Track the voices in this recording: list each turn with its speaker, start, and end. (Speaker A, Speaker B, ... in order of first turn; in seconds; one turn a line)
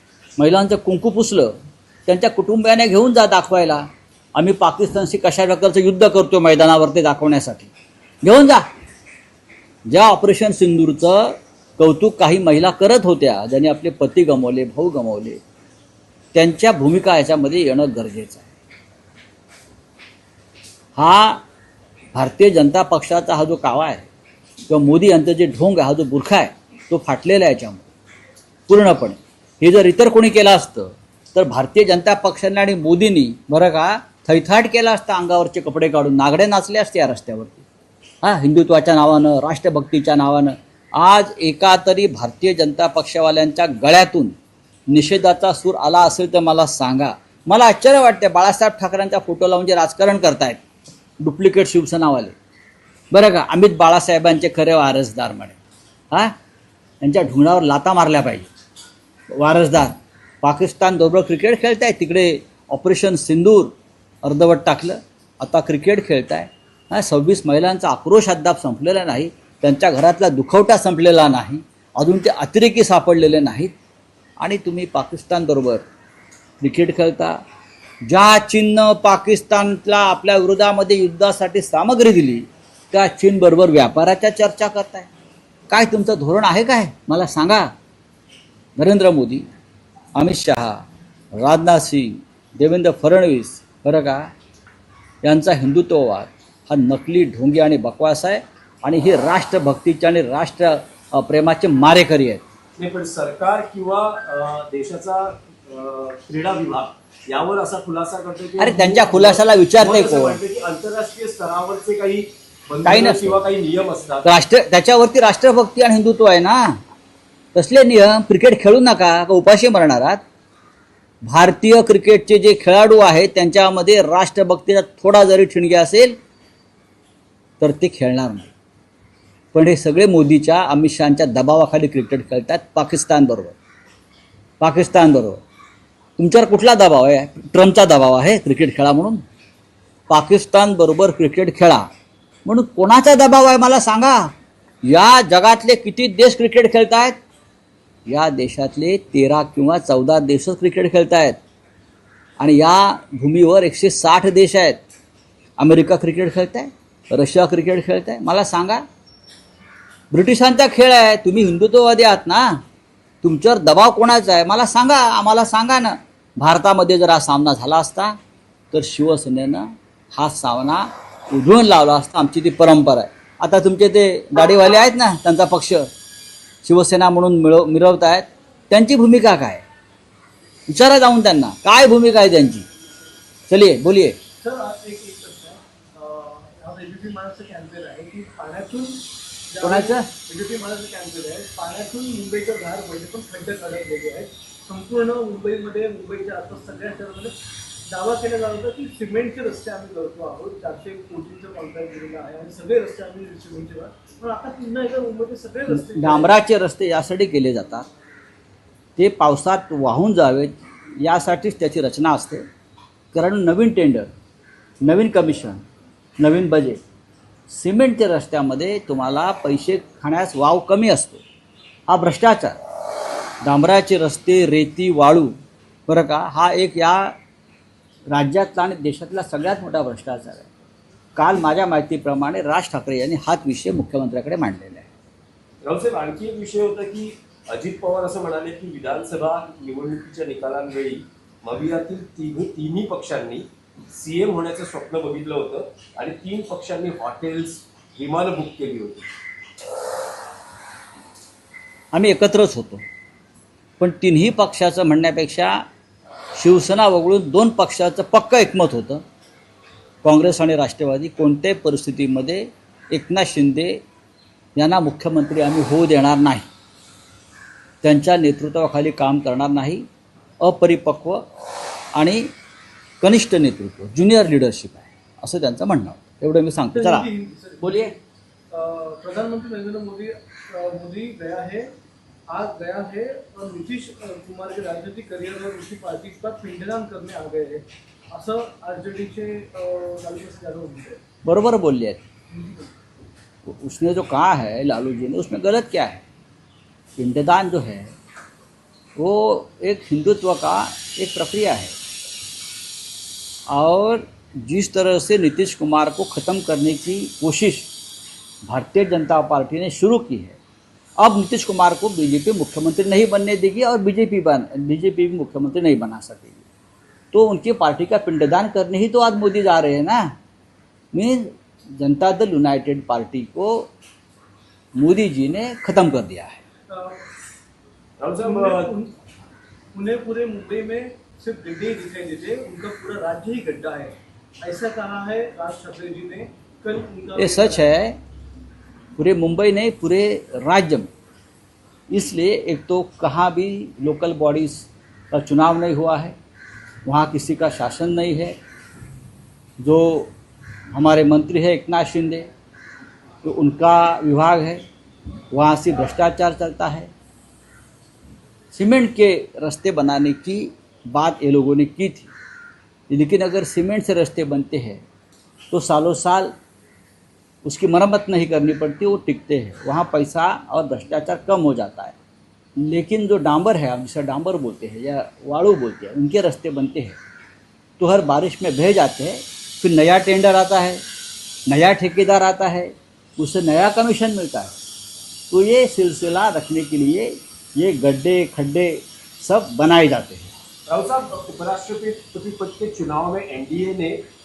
Speaker A: 0.4-7.7
Speaker A: 8.2-8.7
Speaker A: 9.9-15.4
Speaker A: 16.3-18.5
Speaker A: 21.0-21.4
Speaker A: 22.1-24.1
Speaker A: 24.7-27.9
Speaker A: 28.7-37.7
Speaker A: 38.2-44.4
Speaker A: 44.9-50.6
Speaker A: 51.2-52.4
Speaker A: 53.1-55.6
Speaker A: 57.0-58.5
Speaker A: 59.3-73.7
Speaker A: 74.4-75.8
Speaker A: 76.6-77.4
Speaker A: 78.1-85.1
Speaker A: 85.7-87.7
Speaker A: 88.8-89.5
Speaker A: 90.2-90.8
Speaker A: 91.3-94.3
Speaker A: 95.2-102.4
Speaker B: 102.8-114.3
Speaker A: 108.6-110.4
Speaker A: 112.8-113.4
Speaker A: 114.2-116.8
Speaker A: 117.5-120.2
Speaker A: 121.2-126.2
Speaker A: 127.6-128.5
Speaker A: 129.5-133.6
Speaker A: 134.6-135.4
Speaker A: 136.2-139.2
Speaker A: 140.1-141.9
Speaker A: 142.4-144.3
Speaker A: 144.8-147.2
Speaker A: 148.1-151.4
Speaker A: 152.4-154.8
Speaker A: 155.6-158.8
Speaker A: 160.1-162.6
Speaker A: 163.2-168.2
Speaker A: 168.7-175.9
Speaker A: 176.6-179.6
Speaker A: 180.7-182.7
Speaker A: 183.5-184.2
Speaker C: 184.4-197.3
Speaker A: 189.6-190.1
Speaker C: 197.9-206.4
Speaker A: 205.7-207.9
Speaker A: 209.0-212.5
Speaker A: 213.1-214.1
Speaker A: 214.8-215.6
Speaker A: 216.2-216.8
Speaker A: 217.5-221.2
Speaker A: 221.9-222.6
Speaker A: 223.4-225.3
Speaker A: 225.9-227.2
Speaker A: 228.1-230.5
Speaker A: 231.2-234.9
Speaker B: 235.6-249.1
Speaker A: 251.9-252.8
Speaker A: 253.8-255.6
Speaker A: 256.4-259.0
Speaker A: 260.0-263.8
Speaker A: 264.6-266.5
Speaker A: 267.8-269.9
Speaker A: 270.4-271.3
Speaker A: 271.9-272.3
Speaker A: 273.0-277.1
Speaker C: 276.7-277.9
Speaker A: 277.6-277.9
Speaker C: 278.5-281.7
Speaker C: 282.3-291.0
Speaker A: 291.2-292.0
Speaker C: 292.3-292.7
Speaker A: 293.5-296.0
Speaker A: 297.0-297.9
Speaker A: 299.0-301.7
Speaker A: 303.5-307.7
Speaker A: 308.5-310.4
Speaker A: 311.0-316.4
Speaker A: 317.1-320.1
Speaker A: 320.9-323.7
Speaker A: 324.8-326.4
Speaker C: 326.7-327.0
Speaker B: 328.0-328.7
Speaker C: 328.2-328.9
Speaker C: 329.7-337.7
Speaker A: 337.2-338.0
Speaker A: 339.0-340.9
Speaker A: 341.9-346.1
Speaker A: 346.9-348.4
Speaker A: 349.6-350.1
Speaker A: 350.7-352.3
Speaker A: 353.2-354.6
Speaker A: 355.3-356.9
Speaker A: 358.5-362.1
Speaker A: 362.9-364.8
Speaker A: 365.5-366.3
Speaker A: 367.4-372.0
Speaker A: 372.6-377.0
Speaker A: 377.8-380.8
Speaker A: 381.5-384.5
Speaker A: 385.3-390.3
Speaker B: 390.7-394.0